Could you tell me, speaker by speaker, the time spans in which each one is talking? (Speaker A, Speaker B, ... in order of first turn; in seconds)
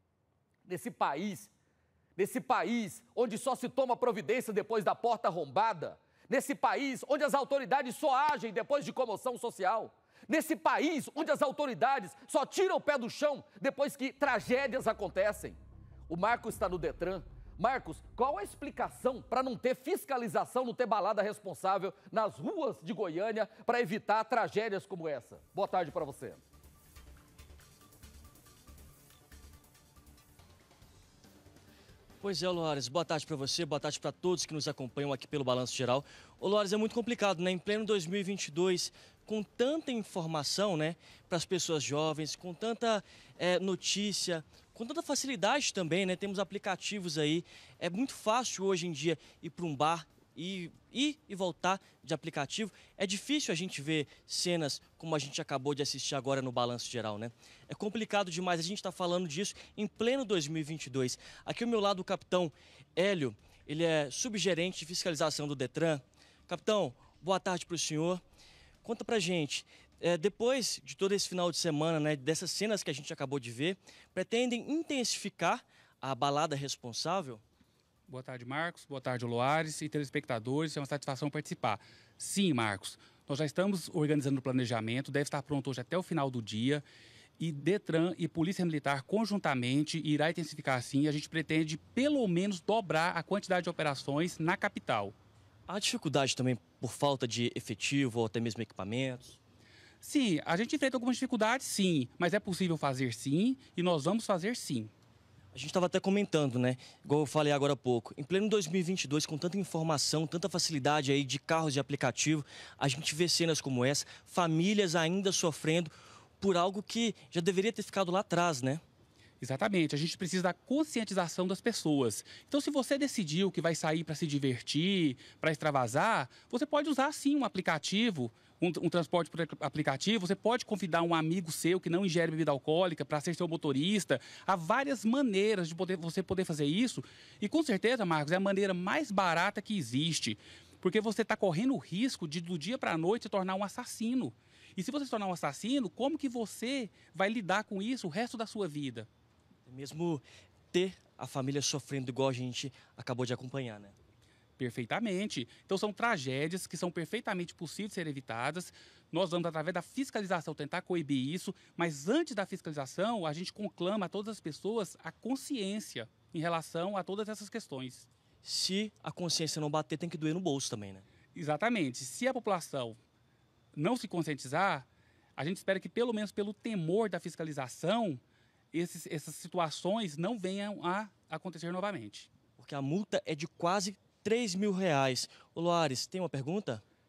Speaker A: 0.7-1.5, 2.2-26.4
Speaker B: 32.2-68.2, 68.8-77.4, 95.7-99.4, 105.5-118.8, 149.7-153.9, 168.4-171.0, 182.6-186.8
Speaker C: 78.1-86.8, 87.4-95.1, 100.0-104.9, 119.4-149.1, 154.6-168.1, 171.3-173.0, 173.7-178.2, 178.7-182.3